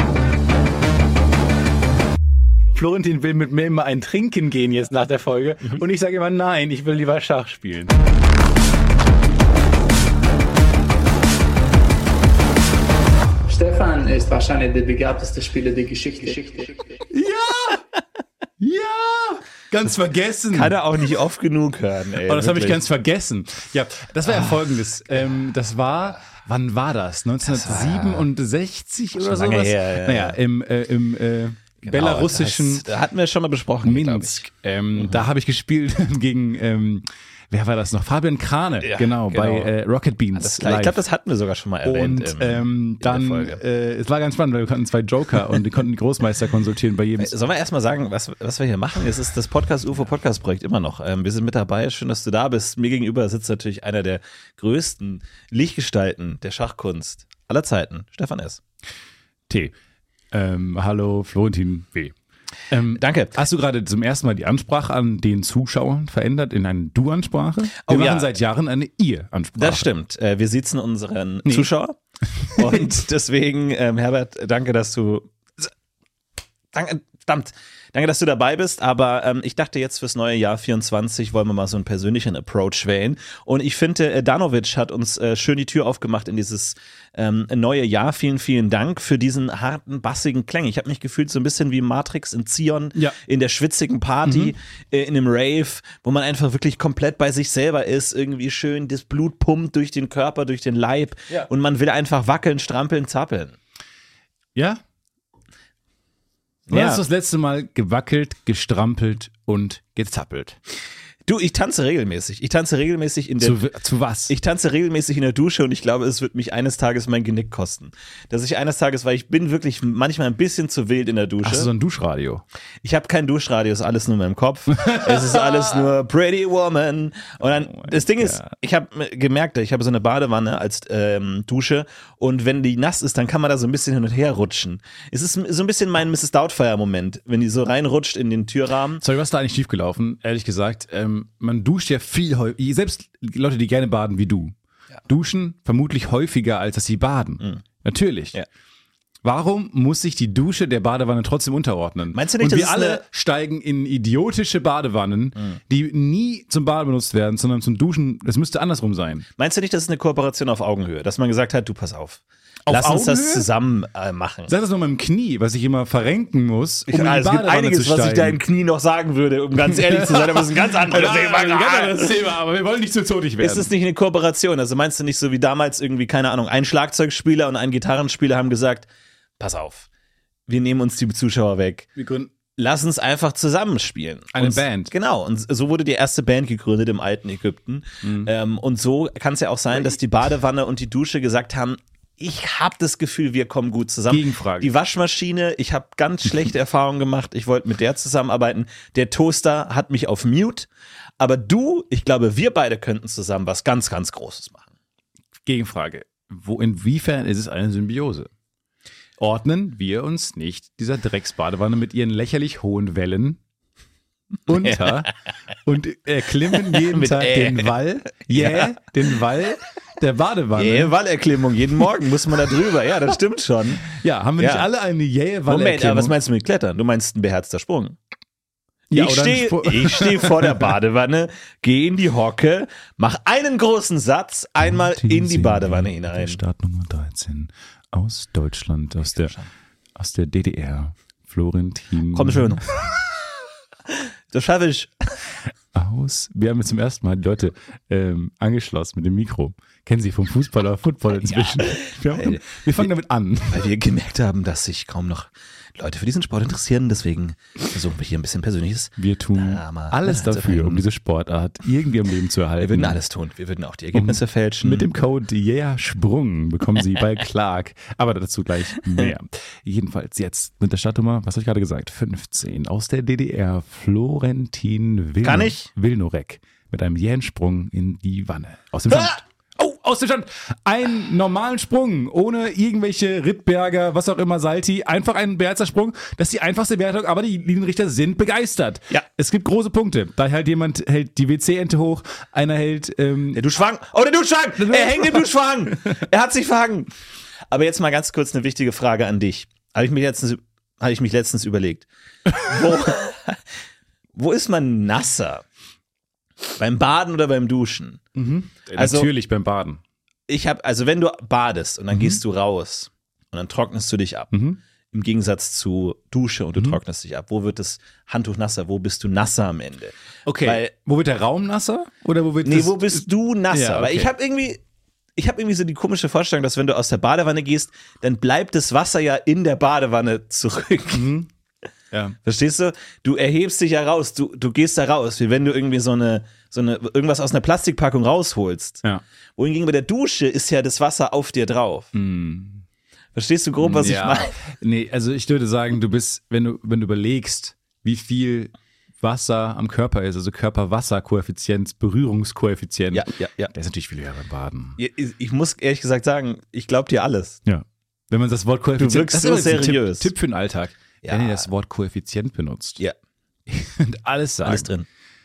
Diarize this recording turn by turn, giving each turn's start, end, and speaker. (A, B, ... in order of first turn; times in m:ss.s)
0:02.7-0:08.0 A
0:13.5-0:16.8 B
0:17.1-0:17.8 A
0:18.6-0:20.7 A
0:20.5-0:22.8 C
0:22.3-0:32.9 A
0:27.4-0:28.2 C
0:29.2-0:30.4 C
0:31.8-0:34.4 C
0:33.8-0:41.0 A
0:38.8-0:39.7 C
0:40.3-0:43.6 C
0:41.8-0:47.3 A
0:47.2-0:58.6 C
0:59.5-0:59.7 A
1:00.3-1:02.1 A
1:02.7-1:09.9 A
1:02.9-1:03.4 C
1:07.8-1:08.3 C
1:09.6-1:12.0 C
1:12.5-1:12.9 A
1:12.5-1:15.7 C
1:16.7-1:43.6 C
1:34.2-1:34.5 A
1:44.6-1:44.8 A
1:46.7-1:47.0 C
1:46.7-1:50.6 A
1:51.2-1:53.6 C
1:53.4-1:54.3 A
1:54.3-2:01.7 C
2:01.4-2:02.4 A
2:02.8-2:19.0 C
2:04.9-2:05.3 A
2:07.4-2:08.5 A
2:19.0-2:24.5 A
2:25.1-2:28.4 A
2:29.2-2:39.3 A
2:32.1-2:33.0 C
2:39.4-2:44.5 C
2:42.7-2:43.5 A
2:44.5-2:48.4 A
2:46.9-2:52.1 C
2:49.7-2:53.7 A
2:53.4-2:58.9 C
2:59.4-2:59.9 C
3:00.5-3:01.9 C
3:02.0-3:02.3 A
3:02.6-3:20.7 C
3:04.3-3:04.9 A
3:08.0-3:08.3 A
3:14.1-3:14.7 A
3:21.2-3:24.7 C
3:25.4-3:28.3 A
3:29.2-3:33.4 A
3:34.5-3:35.1 A
3:34.5-3:35.0 C
3:35.6-3:40.9 A
3:36.6-3:37.7 C
3:38.3-3:38.7 C
3:40.5-3:44.7 C
3:43.8-3:46.2 A
3:45.5-3:48.0 C
3:48.9-3:50.6 A
3:48.9-3:56.4 C
3:54.6-3:59.3 A
4:00.0-4:02.6 A
4:02.1-4:03.0 C
4:03.9-4:04.9 C
4:05.7-4:13.7 A
4:11.2-4:12.5 C
4:13.5-4:20.8 C
4:19.0-4:23.0 A
4:22.6-4:24.9 C
4:23.9-4:53.4 A
4:28.9-4:29.1 C
4:35.2-4:35.7 C
4:53.3-4:56.9 C
4:54.6-4:55.2 A
4:57.5-5:03.4 C
5:04.1-5:05.4 C
5:06.6-5:08.0 C
5:08.1-5:09.8 A
5:08.8-5:09.1 C
5:10.3-5:14.3 C
5:11.9-5:12.2 A
5:14.3-5:14.6 A
5:14.9-5:20.7 C
5:20.2-5:24.1 A
5:22.4-5:24.6 C
5:25.2-5:31.1 C
5:30.9-5:31.3 A
5:31.9-5:32.2 A
5:32.2-5:38.8 C
5:39.4-5:41.9 C
5:41.9-5:42.6 A
5:43.1-5:44.3 C
5:43.6-5:54.8 A
5:52.9-5:53.5 C
5:54.8-5:57.4 C
5:57.4-6:02.8 A
5:58.8-6:00.1 C
6:01.0-6:01.4 C
6:03.5-6:04.7 A
6:04.4-6:04.9 C